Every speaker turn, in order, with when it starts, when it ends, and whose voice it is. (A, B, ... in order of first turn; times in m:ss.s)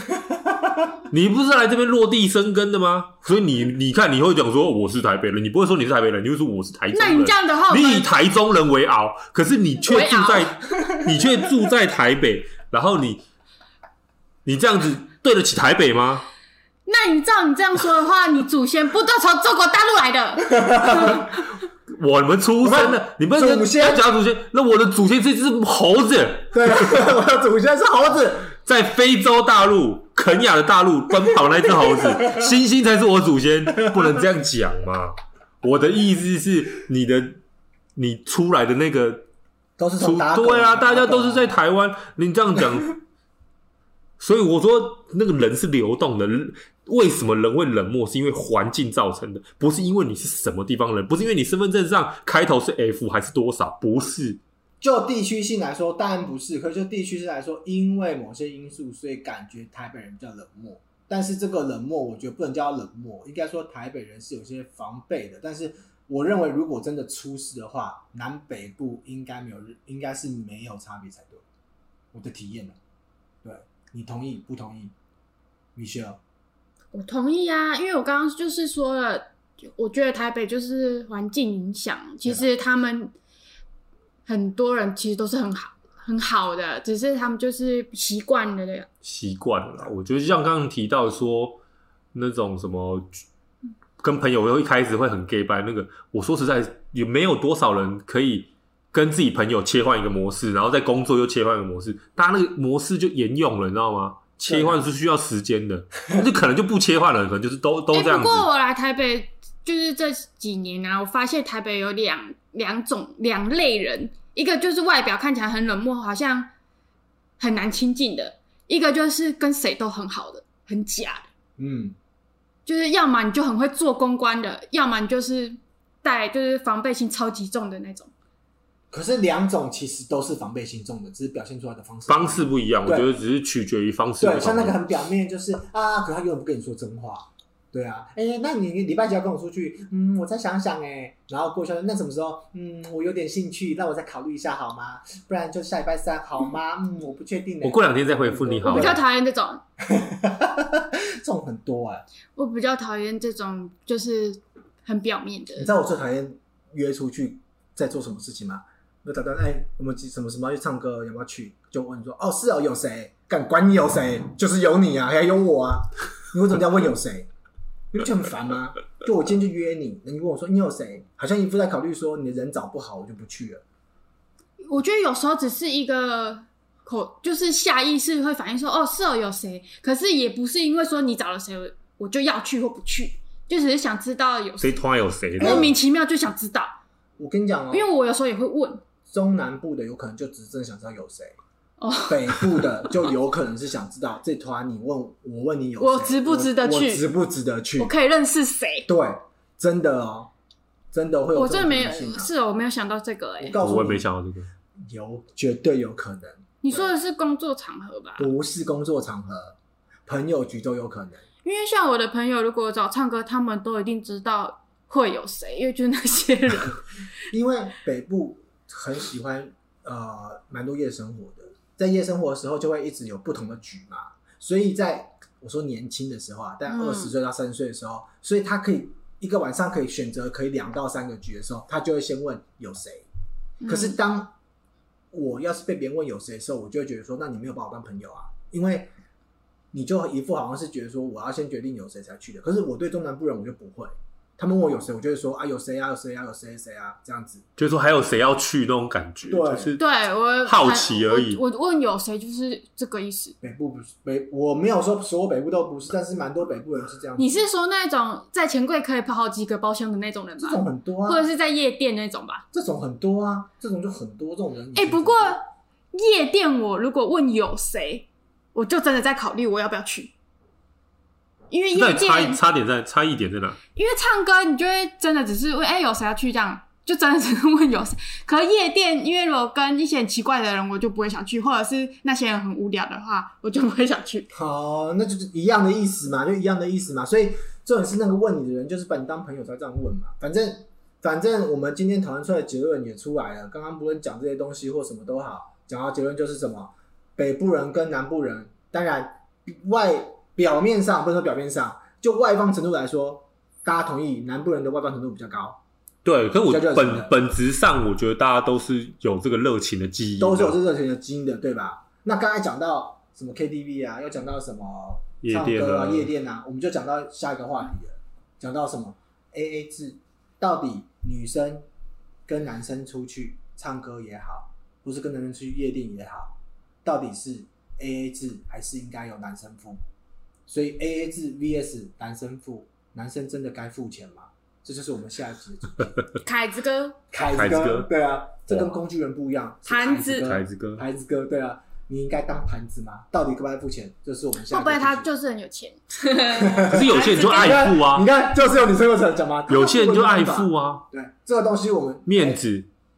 0:00.1-0:00.9 A
0:01.1-0:13.2 B
0:06.9-0:08.1 C
0:09.9-0:11.0 C
0:14.4-0:16.3 B
0:16.9-0:21.1 C
0:20.4-0:21.3 A
0:21.9-0:27.0 B
0:22.6-0:24.1 A
0:26.5-0:28.6 A
0:28.6-0:37.4 B
0:31.9-0:32.5 A
0:33.7-0:34.1 A
0:38.0-0:39.3 B
0:39.8-0:41.5 A
0:40.0-0:43.0 B
0:44.2-0:54.4 B
0:54.8-1:11.4 A
1:12.1-1:12.8 A
1:13.4-1:14.9 A
1:15.8-1:16.2 A
1:16.9-1:23.1 C
1:24.3-1:28.9 C
1:29.0-1:31.6 B
1:32.1-1:33.2 B
1:34.0-1:48.5 B
1:44.5-1:44.8 A
1:47.9-1:56.5 C
1:57.4-2:01.2 C
2:01.6-2:02.0 A
2:02.7-2:08.1 C
2:08.9-2:13.1 A
2:12.1-2:14.8 B
2:14.2-2:29.0 A
2:27.6-2:29.0 B
2:28.6-2:29.6 C
2:29.8-2:32.0 A
2:32.4-2:35.7 C
2:35.6-2:47.3 A
2:47.9-2:53.6 A
2:54.6-3:04.8 C
3:04.6-3:05.8 B
3:05.4-3:06.8 C
3:05.4-3:05.7 A
3:07.2-3:07.9 A
3:07.7-3:08.8 C
3:09.1-3:11.3 A
3:11.8-3:12.8 C
3:12.1-3:17.9 A
3:15.8-3:17.0 C
3:17.8-3:18.9 C
3:18.9-3:20.3 A
3:20.9-3:22.3 A
3:21.3-3:23.6 C
3:23.4-3:24.1 A
3:23.6-3:24.5 B
3:24.9-3:26.9 A
3:26.6-3:28.3 C
3:28.2-3:31.2 A
3:31.4-3:36.8 C
3:37.3-3:53.1 A
3:46.7-3:47.1 C
3:53.6-3:54.0 C
3:53.7-3:54.3 A
3:55.1-3:58.9 A
3:59.7-4:07.4 A
4:07.6-4:09.8 B
4:09.3-4:09.7 A
4:09.8-4:13.4 C
4:10.4-4:11.4 B
4:13.4-4:17.5 A
4:17.2-4:22.4 C
4:20.4-4:21.2 A
4:22.5-4:25.4 A
4:24.7-4:30.1 C
4:31.5-4:32.4 C
4:31.7-4:33.6 B
4:33.7-4:44.3 C
4:44.3-5:05.6 A
5:06.0-5:10.6 B
5:06.4-5:07.1 A
5:10.2-5:21.7 A
5:15.2-5:16.1 B
5:22.3-5:29.8 A
5:30.5-5:35.9 A
5:36.2-5:37.0 C
5:37.1-5:45.1 A
5:37.3-5:37.9 B
5:39.7-5:40.3 C
5:40.2-5:40.8 B
5:44.5-5:47.7 C
5:46.4-5:52.4 A
5:46.7-5:48.1 B
5:49.5-5:50.8 B
5:52.1-5:52.7 B